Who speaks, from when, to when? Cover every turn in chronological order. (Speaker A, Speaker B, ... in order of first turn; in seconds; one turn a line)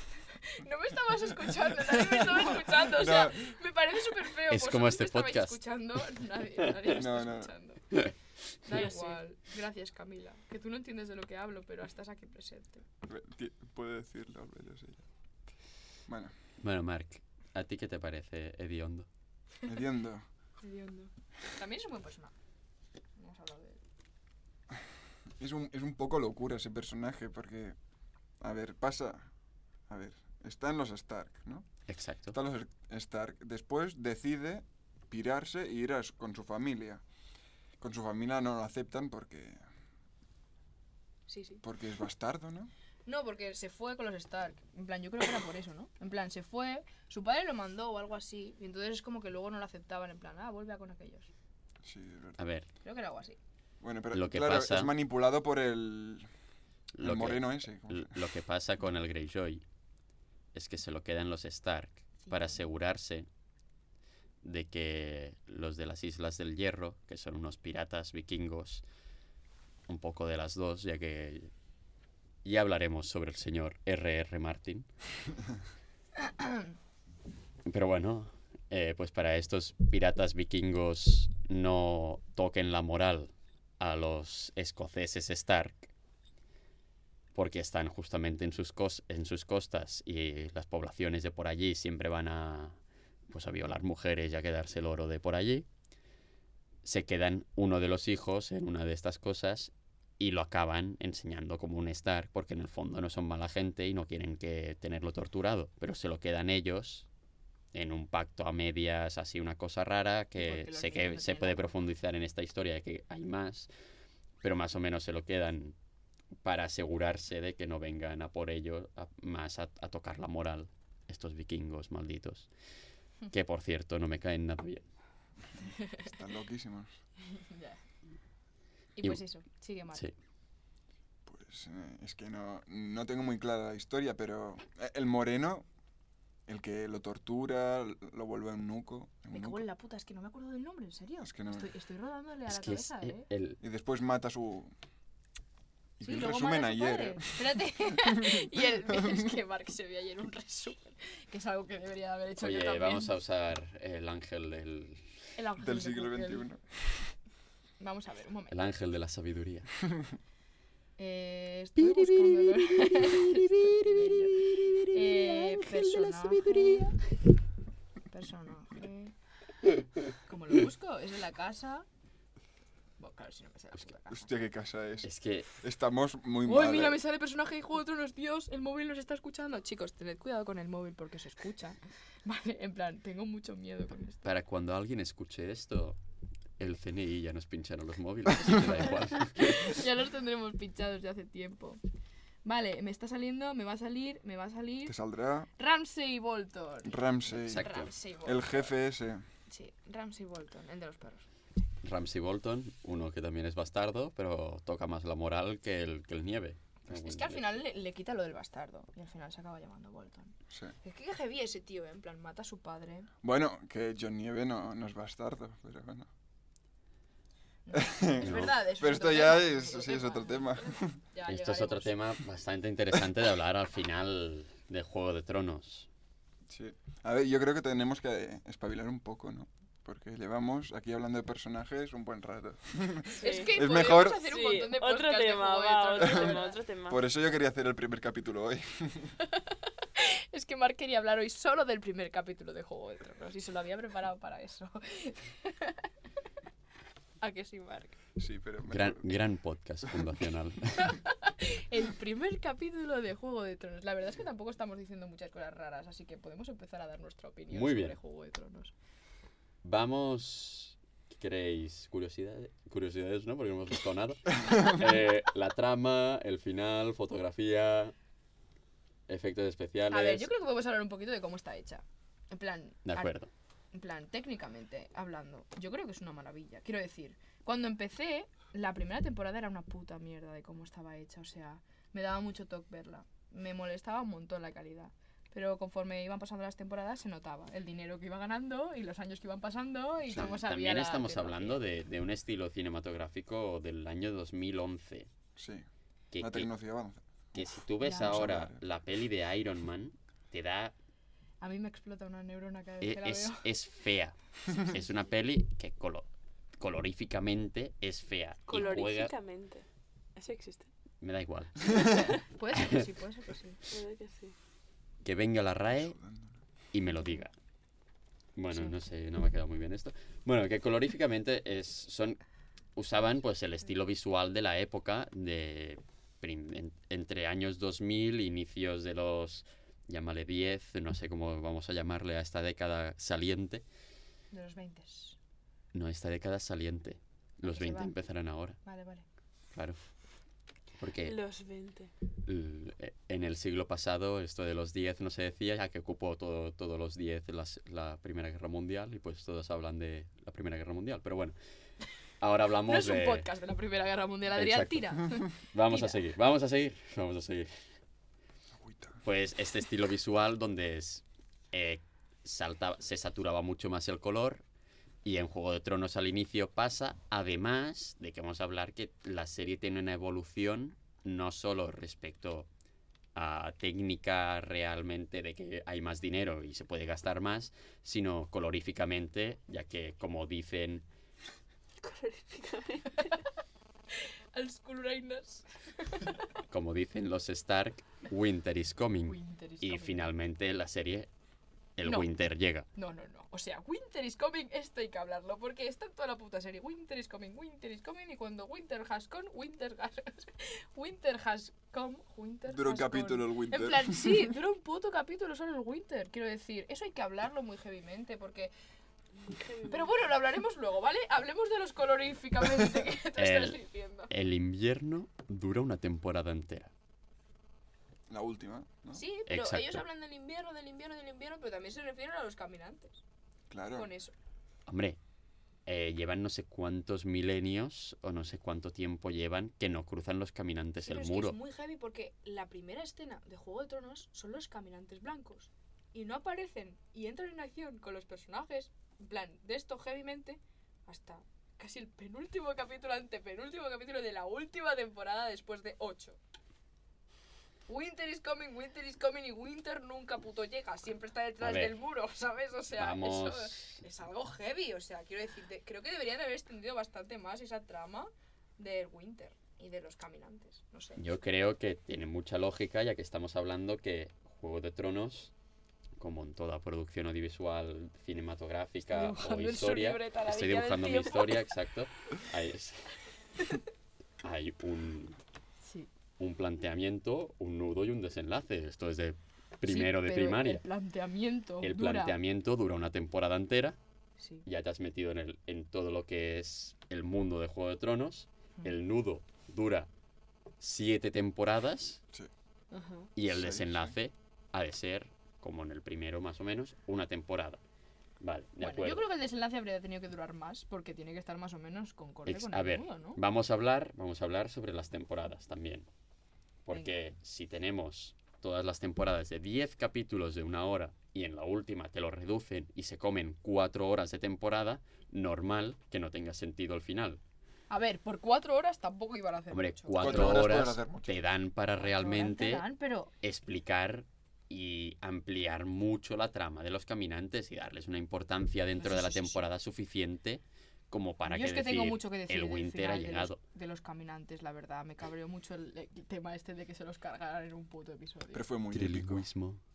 Speaker A: 0.3-8.1
Speaker B: 2.7-3.5
Speaker C: 4.5-5.6
Speaker B: 6.9-7.5
Speaker A: 8.6-12.8
Speaker D: 8.7-9.1
Speaker B: 13.0-15.1
Speaker B: 16.1-16.3
Speaker C: 16.6-19.1
Speaker B: 19.6-20.2
Speaker A: 20.6-22.3
Speaker A: 23.1-23.8
Speaker B: 25.4-27.8
Speaker B: 28.4-29.3
Speaker B: 29.9-31.7
Speaker C: 31.9-32.3
Speaker B: 32.3-37.0
Speaker B: 37.8-39.6
Speaker A: 41.3-41.6
Speaker B: 41.6-42.7
Speaker A: 43.0-51.3
Speaker B: 51.8-52.4
Speaker C: 52.4-52.7
Speaker A: 52.8-53.4
Speaker B: 53.8-56.3
Speaker C: 54.1-54.9
Speaker C: 56.9-59.6
Speaker B: 57.0-58.1
Speaker C: 60.5-63.3
Speaker A: 62.2-62.6
Speaker C: 64.4-68.8
Speaker C: 69.9-71.5
Speaker C: 72.4-74.9
Speaker C: 77.7-85.9
Speaker C: 87.3-92.8
Speaker C: 93.3-95.7
Speaker C: 96.8-107.1
Speaker C: 107.7-113.7
Speaker A: 110.4-111.8
Speaker C: 114.4-115.8
Speaker C: 116.4-122.5
Speaker C: 123.3-124.8
Speaker A: 125.8-126.0
Speaker B: 125.9-127.0
Speaker A: 127.3-127.8
Speaker A: 129.0-130.0
Speaker B: 131.2-135.7
Speaker B: 136.5-139.6
Speaker A: 139.3-143.3
Speaker B: 141.2-141.7
Speaker C: 142.5-143.6
Speaker B: 143.6-144.7
Speaker B: 146.0-148.4
Speaker A: 146.0-153.1
Speaker C: 152.4-155.1
Speaker A: 155.3-156.5
Speaker B: 155.6-157.0
Speaker A: 157.8-158.6
Speaker C: 158.5-159.7
Speaker A: 161.0-167.0
Speaker C: 161.8-166.9
Speaker A: 168.1-169.1
Speaker A: 170.2-171.8
Speaker A: 173.0-174.3
Speaker B: 174.1-177.0
Speaker C: 175.0-175.5
Speaker A: 176.4-184.3
Speaker C: 184.2-186.0
Speaker C: 186.6-189.8
Speaker A: 189.0-191.8
Speaker A: 192.4-194.9
Speaker B: 194.9-195.5
Speaker A: 195.6-198.7
Speaker B: 196.8-197.7
Speaker C: 197.4-197.9
Speaker B: 198.2-199.2
Speaker A: 199.5-201.6
Speaker C: 201.8-207.6
Speaker A: 206.9-213.1
Speaker B: 210.5-210.7
Speaker B: 213.2-216.1
Speaker A: 217.7-222.0
Speaker B: 217.7-221.0
Speaker C: 218.2-218.5
Speaker C: 221.3-225.9
Speaker B: 226.5-234.3
Speaker A: 233.1-236.6
Speaker D: 233.2-233.6
Speaker D: 234.2-237.0
Speaker B: 236.0-239.1
Speaker A: 239.9-245.8
Speaker A: 247.2-247.9
Speaker B: 248.2-249.1
Speaker C: 248.7-251.0
Speaker A: 250.8-258.7
Speaker C: 257.5-257.9
Speaker C: 259.6-267.9
Speaker C: 269.1-270.3
Speaker A: 269.9-273.1
Speaker C: 272.8-273.3
Speaker A: 273.7-291.6
Speaker C: 290.1-295.1
Speaker B: 295.4-295.7
Speaker C: 296.1-296.5
Speaker B: 296.2-298.6
Speaker C: 297.3-300.7
Speaker A: 297.8-298.2
Speaker A: 301.4-303.5
Speaker C: 302.8-309.1
Speaker D: 308.5-310.7
Speaker C: 311.0-311.8
Speaker D: 311.8-312.2
Speaker A: 312.4-313.6
Speaker C: 312.5-312.8
Speaker D: 313.7-314.4
Speaker C: 315.0-315.9
Speaker B: 315.8-316.3
Speaker C: 316.7-317.3
Speaker A: 317.0-317.2
Speaker C: 318.3-322.2
Speaker A: 318.5-318.8
Speaker C: 322.8-333.6
Speaker A: 334.3-335.2
Speaker C: 335.7-338.6
Speaker A: 337.5-337.9
Speaker A: 338.6-339.1
Speaker C: 340.8-341.2
Speaker D: 341.0-341.9
Speaker C: 342.2-351.3
Speaker C: 352.2-353.3
Speaker A: 352.6-356.0
Speaker C: 354.3-357.5
Speaker B: 358.5-359.0
Speaker C: 359.0-364.4
Speaker C: 365.0-372.5
Speaker C: 373.1-380.8
Speaker D: 381.8-383.2
Speaker A: 383.9-386.2
Speaker C: 386.5-391.1
Speaker A: 389.1-390.1
Speaker C: 391.8-392.7
Speaker A: 392.8-408.5
Speaker B: 402.5-404.3
Speaker D: 409.2-409.9
Speaker A: 409.6-414.1
Speaker C: 413.2-413.6
Speaker C: 414.1-416.7
Speaker B: 418.1-419.0
Speaker A: 418.9-423.0
Speaker C: 419.3-419.8
Speaker B: 423.5-423.9
Speaker A: 423.7-424.1
Speaker C: 424.7-425.0
Speaker C: 425.6-431.4
Speaker A: 430.8-446.2
Speaker A: 447.7-461.1
Speaker C: 451.4-451.7
Speaker C: 452.8-453.8
Speaker C: 461.0-465.3
Speaker C: 466.0-472.9
Speaker A: 468.9-471.4
Speaker C: 474.2-475.2
Speaker A: 475.6-475.9
Speaker C: 476.2-480.6
Speaker A: 479.6-482.1
Speaker C: 481.6-483.8
Speaker A: 484.2-484.4
Speaker C: 484.4-489.9
Speaker C: 490.6-492.0
Speaker A: 492.7-493.1
Speaker C: 493.1-497.6
Speaker B: 493.3-494.0
Speaker C: 498.2-499.0
Speaker A: 498.6-503.2
Speaker C: 502.2-505.9
Speaker C: 506.6-517.2
Speaker A: 517.7-520.5
Speaker C: 519.5-522.6
Speaker B: 520.0-521.2
Speaker A: 522.0-523.1
Speaker C: 523.2-533.4
Speaker A: 528.8-529.4
Speaker A: 531.2-538.5
Speaker B: 538.3-539.2
Speaker C: 538.7-539.6